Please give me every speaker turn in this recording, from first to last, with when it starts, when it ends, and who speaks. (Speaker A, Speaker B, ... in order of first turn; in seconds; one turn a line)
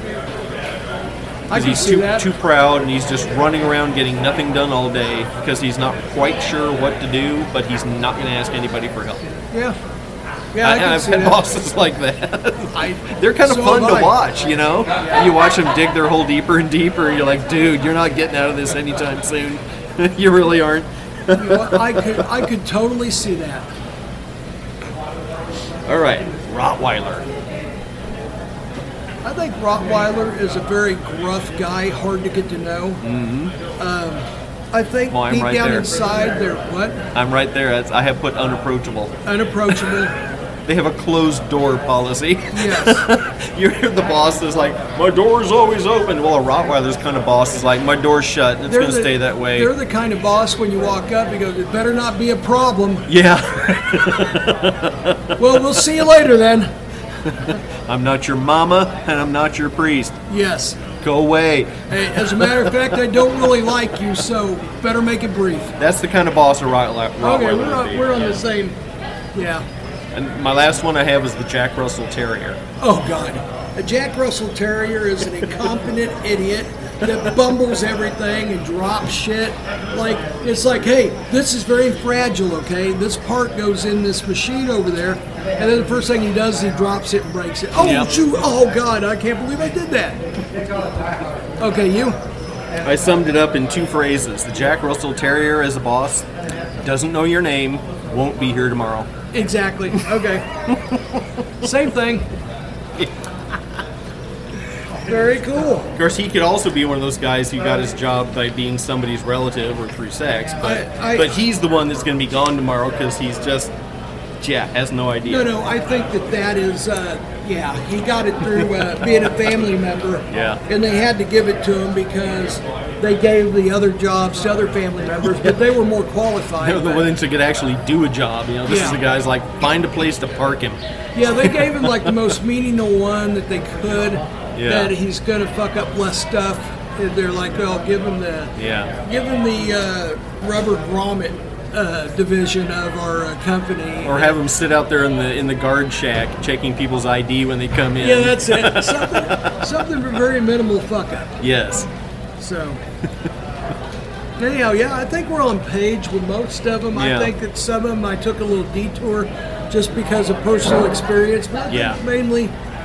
Speaker A: 1.5-2.3
Speaker B: 1.5-9.2
Speaker A: 9.5-9.8
Speaker A: 10.5-11.4
Speaker B: 10.6-22.4
Speaker A: 12.7-14.2
Speaker A: 21.3-23.7
Speaker B: 25.9-27.3
Speaker A: 29.2-33.0
Speaker B: 33.0-33.6
Speaker A: 33.8-37.1
Speaker B: 35.1-35.9
Speaker B: 37.1-39.1
Speaker A: 39.2-40.1
Speaker B: 39.7-40.0
Speaker B: 40.6-49.7
Speaker A: 42.5-43.0
Speaker A: 48.7-53.1
Speaker B: 53.1-55.8
Speaker A: 55.4-56.7
Speaker B: 57.2-60.2
Speaker A: 60.3-60.8
Speaker B: 61.0-63.5
Speaker A: 61.9-65.8
Speaker B: 65.8-68.3
Speaker A: 67.2-68.8
Speaker A: 69.3-69.7
Speaker B: 70.1-72.6
Speaker A: 72.8-90.2
Speaker B: 77.0-77.3
Speaker B: 87.8-88.2
Speaker A: 91.6-92.2
Speaker B: 92.8-99.1
Speaker A: 99.3-100.5
Speaker B: 100.7-101.7
Speaker A: 101.6-102.3
Speaker A: 105.0-105.9
Speaker B: 105.9-113.7
Speaker A: 110.6-111.3
Speaker B: 114.4-115.5
Speaker A: 115.2-127.1
Speaker B: 118.5-119.0
Speaker B: 120.3-120.6
Speaker B: 125.3-125.6
Speaker B: 126.6-132.2
Speaker A: 128.7-129.0
Speaker A: 131.1-144.3
Speaker B: 134.5-134.9
Speaker B: 138.6-138.9
Speaker B: 144.0-149.7
Speaker A: 148.0-151.4
Speaker B: 151.4-151.9
Speaker A: 152.4-152.8
Speaker A: 154.4-162.6
Speaker B: 156.9-157.3
Speaker B: 161.7-162.0